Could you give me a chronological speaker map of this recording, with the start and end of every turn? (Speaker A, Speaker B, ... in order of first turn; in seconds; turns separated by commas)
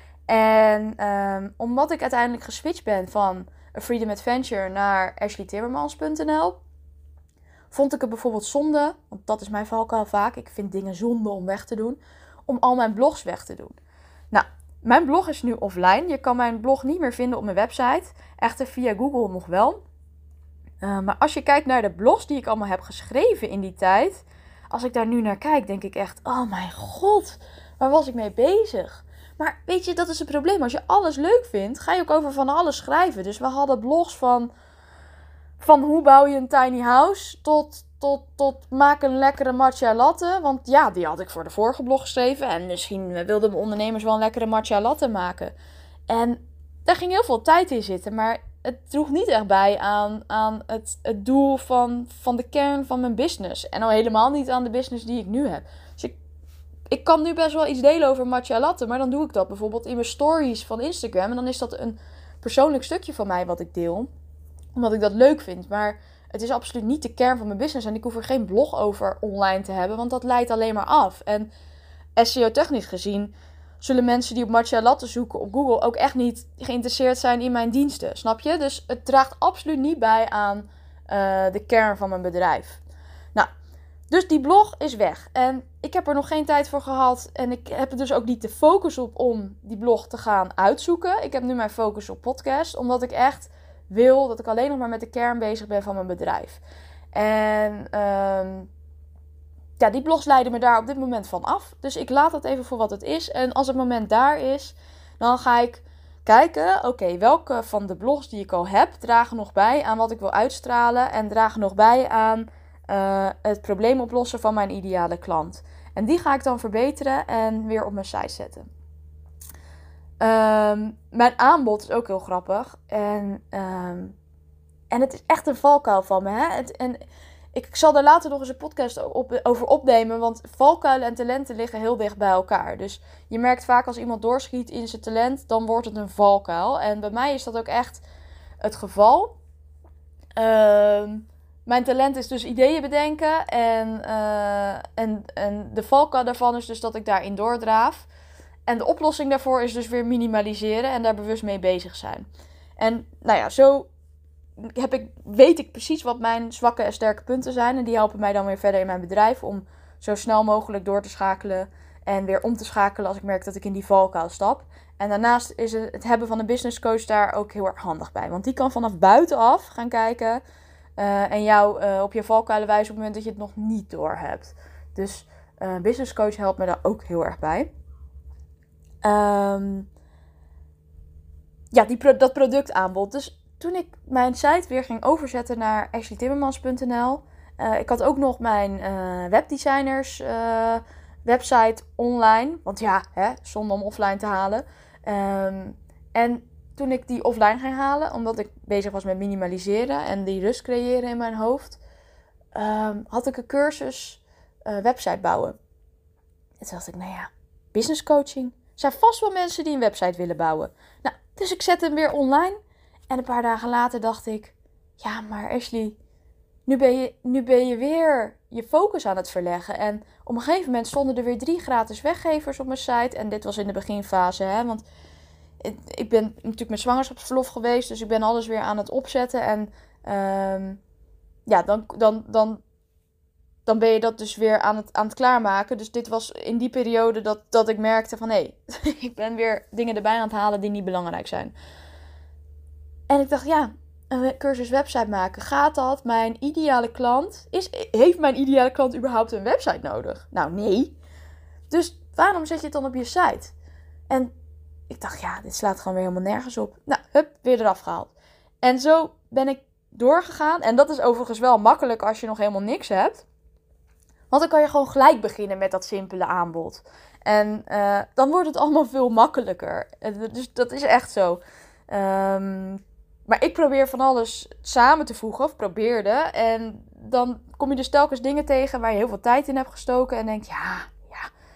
Speaker A: 0.3-6.6, Speaker A: 7.7-13.8, Speaker A: 14.3-19.8, Speaker A: 20.8-34.5, Speaker A: 35.6-45.5, Speaker A: 46.1-56.1, Speaker A: 56.9-64.1, Speaker A: 64.8-71.5, Speaker A: 72.2-82.8, Speaker A: 84.1-96.6, Speaker A: 97.1-98.7, Speaker A: 99.8-118.7, Speaker A: 120.2-124.1, Speaker A: 124.9-127.0, Speaker A: 127.5-138.0, Speaker A: 138.6-139.3, Speaker A: 140.4-148.1, Speaker A: 148.7-152.2, Speaker A: 152.8-153.9, Speaker A: 154.6-170.4, Speaker A: 171.0-177.7, Speaker A: 179.0-179.9, Speaker A: 181.7-201.8, Speaker A: 202.5-205.6, Speaker A: 206.6-212.6, Speaker A: 213.1-216.0, Speaker A: 216.7-224.8, Speaker A: 225.6-230.8, Speaker A: 231.5-232.6, Speaker A: 233.7-241.5, Speaker A: 243.1-250.9, Speaker A: 251.7-253.5, Speaker A: 254.9-263.2, Speaker A: 264.3-281.3